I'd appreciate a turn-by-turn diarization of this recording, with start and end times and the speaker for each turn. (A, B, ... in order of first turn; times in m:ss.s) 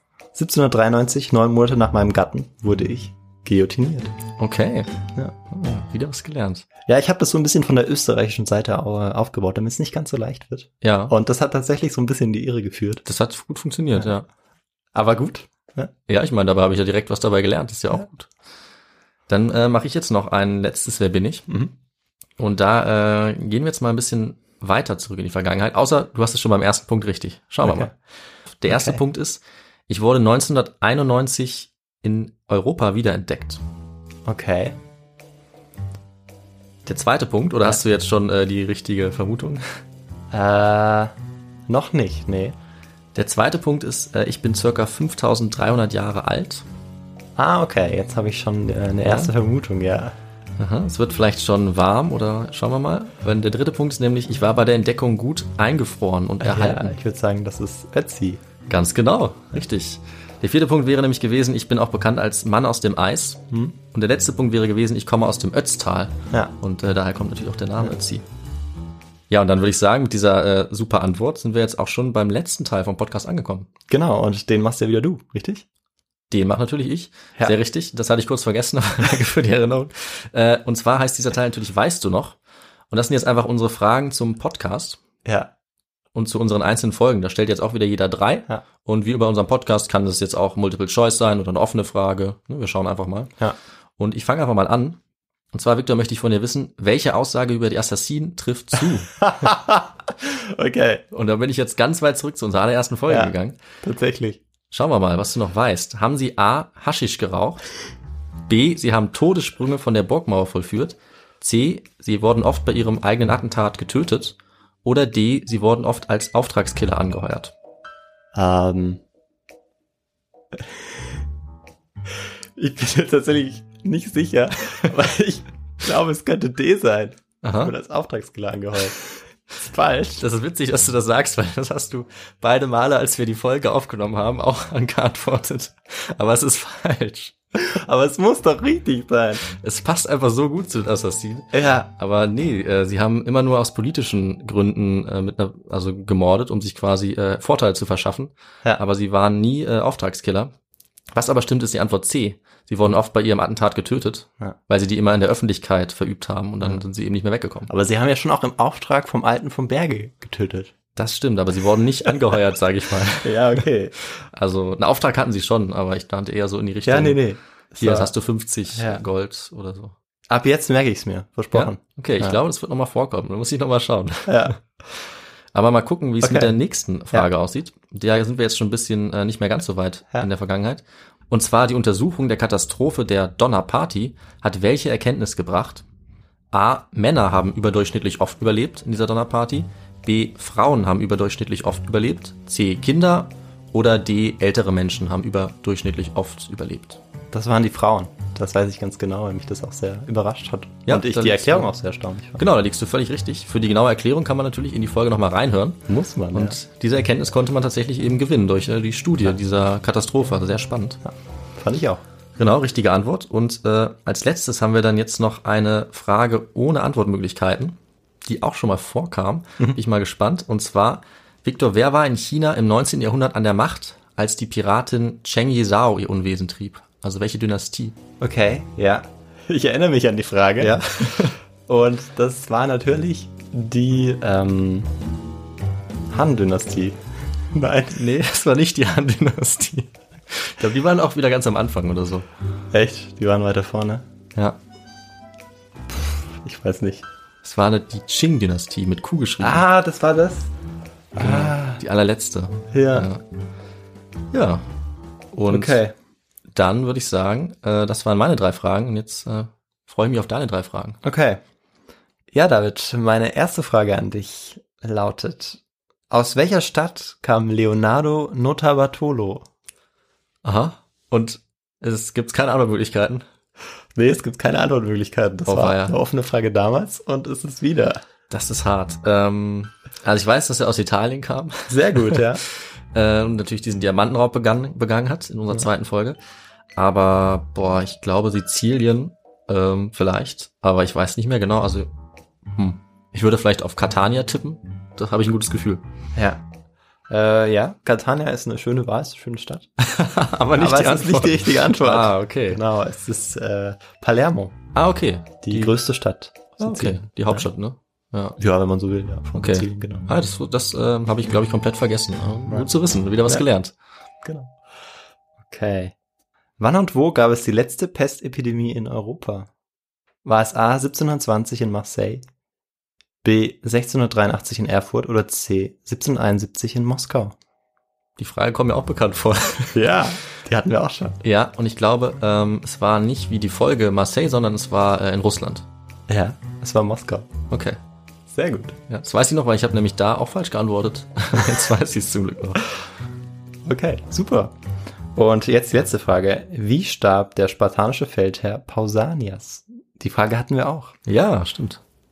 0:00.4-0:04.1 A
0:04.4-0:04.9 B
0:05.5-0:06.7 B
0:06.9-0:13.0 A
0:10.8-0:11.1 B
0:13.0-0:14.3 B
0:14.9-0:15.9 A
0:16.1-0:18.3 B
0:19.3-0:21.5 B
0:22.4-0:27.9 B
0:27.6-0:27.9 A
0:28.5-0:33.6 B
0:28.7-0:29.0 A
0:34.3-0:34.8 A
0:36.9-0:39.7 B
0:40.3-0:41.1 A
0:41.7-0:42.6 A
0:43.2-0:46.6 B
0:47.4-0:50.2 A
0:49.0-0:49.3 B
0:50.6-0:57.0 B
0:56.4-0:58.4 A
0:58.7-1:08.2 B
1:09.3-1:13.7 B
1:13.9-1:15.7 A
1:16.3-1:22.4 B
1:22.9-1:25.0 B
1:25.2-1:25.5 A
1:26.1-1:33.3 B
1:34.0-1:35.0 B
1:35.5-1:39.3 B
1:39.2-1:41.0 A
1:41.1-1:43.6 B
1:43.1-1:44.4 A
1:44.7-1:47.6 B
1:48.5-1:57.5 B
1:58.4-1:59.0 A
2:02.6-2:10.2 A
2:07.4-2:07.7 B
2:10.2-2:17.4 B
2:17.6-2:19.4 A
2:19.4-2:30.5 B
2:21.5-2:21.9 A
2:31.1-2:37.7 B
2:37.7-2:40.7 A
2:41.0-2:43.6 B
2:43.2-2:44.0 A
2:44.3-2:47.2 B
2:46.9-2:48.1 A
2:47.8-2:50.0 B
2:48.7-2:49.0 A
2:50.3-2:52.4 A
2:51.5-3:05.8 B
2:54.3-2:54.6 A
2:56.2-2:56.5 A
3:06.5-3:17.0 B
3:17.3-3:22.4 A
3:20.9-3:21.7 B
3:22.4-3:31.0 B
3:25.9-3:26.6 A
3:31.0-3:32.0 A
3:32.4-3:48.0 B
3:48.2-3:54.9 A
3:50.6-3:51.4 B
3:56.1-3:57.0 A
3:57.5-3:58.0 A
3:57.9-4:02.3 B
4:02.7-4:04.1 A
4:06.4-4:07.0 A
4:07.4-4:09.6 B
4:09.4-4:10.5 A
4:11.2-4:11.8 A
4:11.2-4:13.2 B
4:12.7-4:13.1 A
4:14.3-4:14.6 B
4:15.3-4:15.8 B
4:15.5-4:15.9 A
4:16.5-4:21.0 B
4:21.0-4:21.4 A
4:22.3-4:29.5 A
4:30.4-4:33.3 B
4:34.0-4:38.0 A
4:35.5-4:36.0 B
4:38.3-4:42.2 B
4:41.7-4:42.4 A
4:42.9-4:46.2 B
4:46.8-4:51.9 B
4:52.5-4:55.8 B
4:56.2-4:56.4 A
4:57.1-4:59.7 A
4:59.8-5:02.6 B
5:00.5-5:04.6 A
5:04.8-5:05.7 B
5:05.4-5:07.5 A
5:06.6-5:08.4 B
5:08.4-5:10.1 A
5:09.4-5:13.7 B
5:14.2-5:14.5 A
5:15.4-5:15.9 A
5:16.6-5:19.5 A
5:20.2-5:22.2 A
5:23.2-5:27.4 A
5:28.2-5:29.8 B
5:29.7-5:31.2 A
5:31.2-5:35.7 B
5:36.1-5:37.3 A
5:37.5-5:37.8 B
5:38.3-5:38.8 A
5:38.9-5:42.6 B
5:43.6-5:44.5 A
5:45.2-5:51.0 A
5:51.1-5:51.8 B